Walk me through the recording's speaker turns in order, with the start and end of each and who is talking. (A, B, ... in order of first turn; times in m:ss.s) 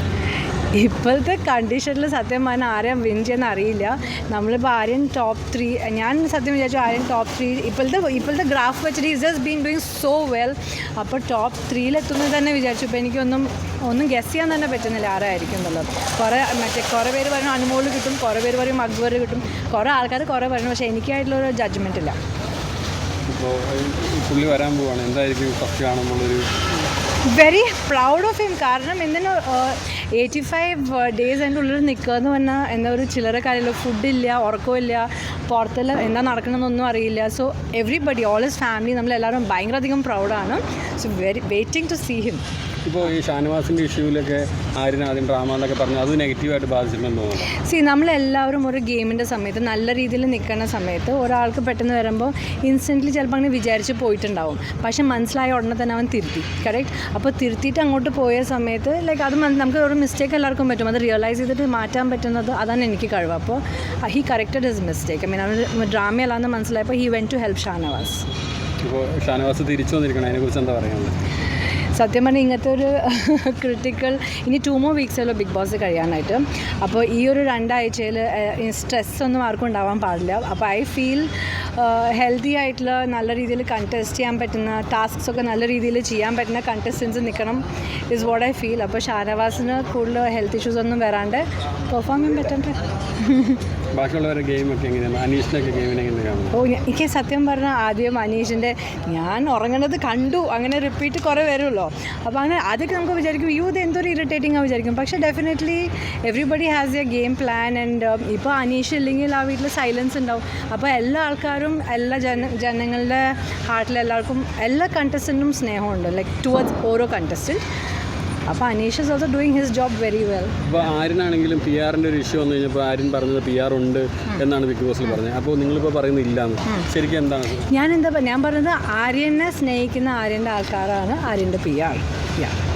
0:00.7-0:22.2 A
0:23.3-0:26.4 B
0:27.3-0:42.4 A
0:42.8-0:47.5 B
0:47.6-1:08.2 A
1:08.8-1:11.1 B
1:12.0-1:33.6 A
1:33.9-1:36.6 B
1:36.5-1:57.6 A
1:58.5-2:00.5 A
2:00.6-2:07.7 B
2:07.7-2:12.5 A